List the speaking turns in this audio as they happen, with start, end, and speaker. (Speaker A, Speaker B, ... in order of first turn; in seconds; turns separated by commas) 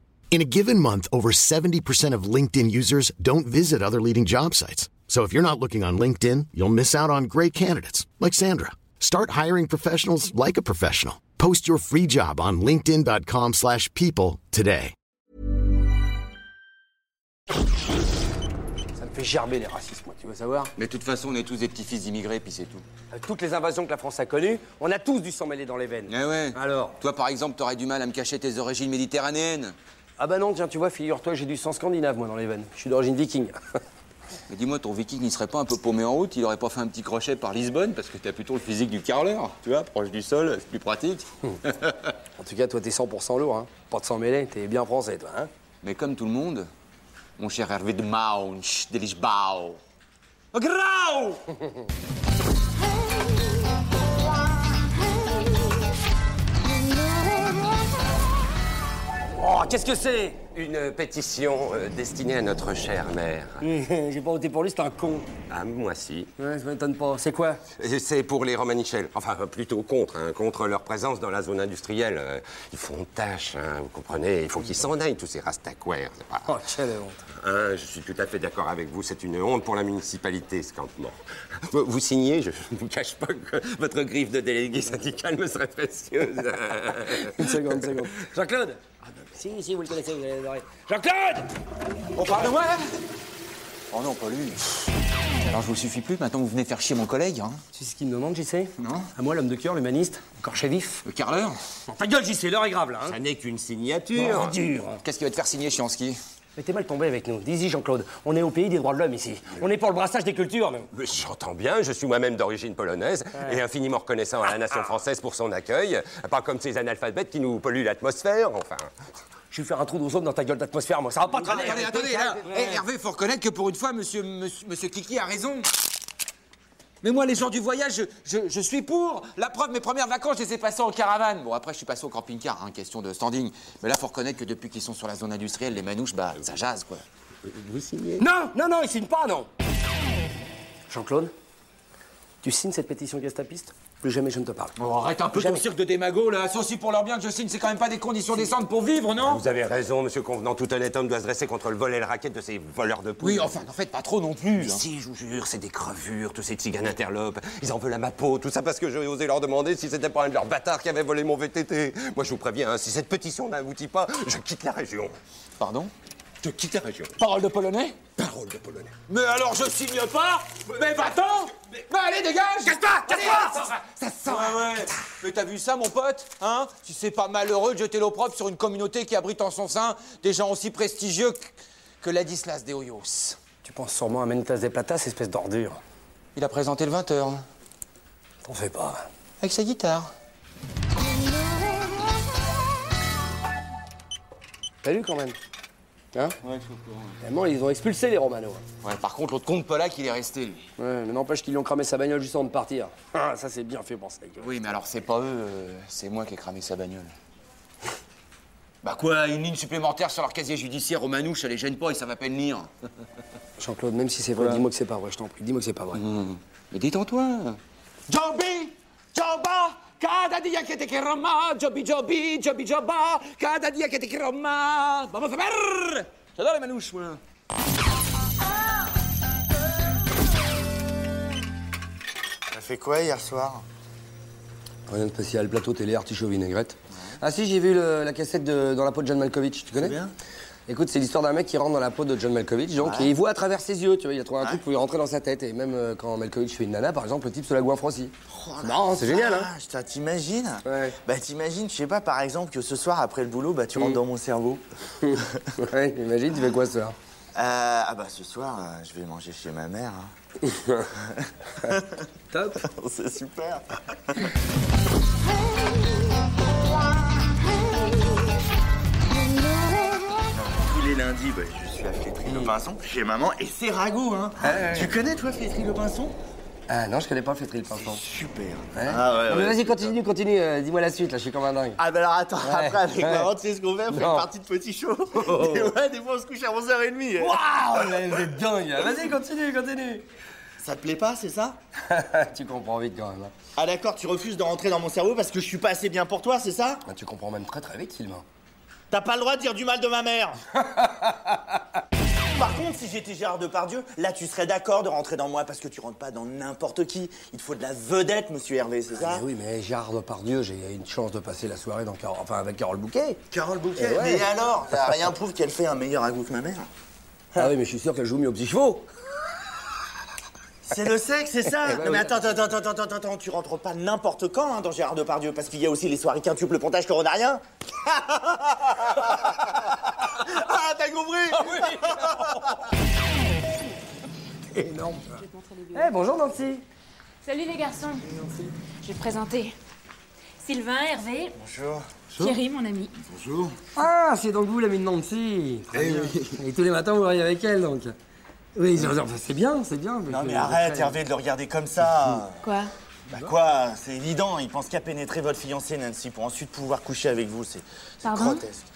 Speaker A: 0.3-14.9, Speaker B: 18.9-20.7, Speaker C: 20.8-22.8, Speaker B: 23.1-27.0, Speaker C: 26.1-29.7, Speaker B: 30.2-33.5, Speaker C: 34.5-41.9, Speaker B: 42.4-45.5, Speaker C: 45.8-46.7, Speaker C: 47.4-49.8, Speaker C: 50.5-51.4, Speaker B: 59.4-60.4, Speaker D: 60.5-63.6, Speaker B: 63.6-65.2, Speaker D: 65.5-66.3, Speaker B: 66.4-67.6, Speaker D: 67.8-76.5, Speaker B: 76.5-77.2, Speaker D: 77.4-81.2, Speaker D: 81.7-87.4, Speaker B: 87.1-88.8, Speaker B: 89.3-91.5, Speaker C: 92.2-92.9, Speaker E: 93.9-94.6, Speaker C: 95.4-97.6, Speaker B: 97.7-101.0, Speaker E: 98.8-99.0, Speaker C: 101.0-101.5, Speaker B: 101.9-103.2, Speaker D: 103.0-104.6, Speaker B: 104.1-105.0, Speaker C: 105.0-106.2, Speaker B: 106.6-110.9, Speaker D: 110.9-118.9, Speaker B: 119.5-122.8, Speaker C: 121.4-125.7, Speaker C: 127.0-137.0, Speaker D: 137.5-138.2, Speaker B: 138.2-139.5, Speaker B: 140.9-141.3, Speaker B: 142.4-144.7, Speaker C: 144.8-149.4, Speaker D: 149.2-153.6, Speaker C: 153.2-154.8, Speaker D: 154.6-165.2, Speaker C: 165.6-165.9, Speaker D: 166.4-167.1, Speaker C: 167.2-168.0, Speaker D: 168.1-168.9, Speaker C: 169.1-183.4, Speaker B: 183.6-185.8, Speaker C: 186.3-187.4, Speaker B: 188.4-189.1, Speaker C: 189.4-190.1, Speaker B: 194.8-195.3, Speaker C: 196.4-197.2, Speaker B: 197.2-198.6, Speaker C: 198.8-200.7, Speaker B: 200.8-204.5, Speaker C: 204.4-207.1, Speaker C: 208.8-212.7, Speaker B: 213.6-216.0, Speaker C: 214.4-214.6, Speaker C: 215.9-227.2, Speaker E: 232.5-233.6, Speaker B: 234.9-240.0, Speaker E: 239.8-240.1, Speaker B: 240.7-249.5, Speaker E: 242.8-243.1, Speaker E: 248.3-255.2, Speaker B: 250.6-250.9, Speaker B: 255.6-256.9, Speaker E: 257.3-260.1, Speaker E: 260.9-262.1, Speaker B: 262.3-262.6, Speaker E: 262.6-264.2, Speaker E: 270.3-276.1, Speaker B: 274.4-274.9, Speaker B: 276.7-278.0, Speaker E: 277.7-279.9, Speaker B: 278.7-281.8, Speaker E: 281.8-287.4, Speaker B: 282.4-283.3, Speaker B: 283.9-284.2, Speaker B: 285.3-285.7, Speaker B: 287.2-290.1, Speaker E: 290.6-291.6, Speaker B: 291.9-293.3, Speaker E: 293.6-296.8, Speaker B: 296.8-298.2, Speaker E: 298.9-300.4, Speaker E: 302.3-309.2, Speaker B: 309.0-313.2, Speaker E: 313.3-316.7, Speaker B: 313.8-314.2, Speaker B: 317.3-318.9, Speaker E: 320.7-332.5, Speaker B: 321.6-322.2, Speaker B: 334.5-335.1, Speaker F: 335.1-336.0, Speaker B: 335.7-336.6, Speaker F: 337.2-338.1, Speaker B: 338.1-338.4, Speaker F: 338.8-339.6, Speaker F: 340.4-341.3, Speaker E: 341.3-342.3, Speaker F: 342.2-342.9, Speaker E: 343.0-343.5, Speaker B: 343.7-347.9, Speaker E: 345.7-346.3, Speaker B: 348.5-351.0, Speaker E: 350.1-352.5, Speaker F: 352.4-352.7, Speaker E: 353.1-358.6, Speaker F: 358.0-358.4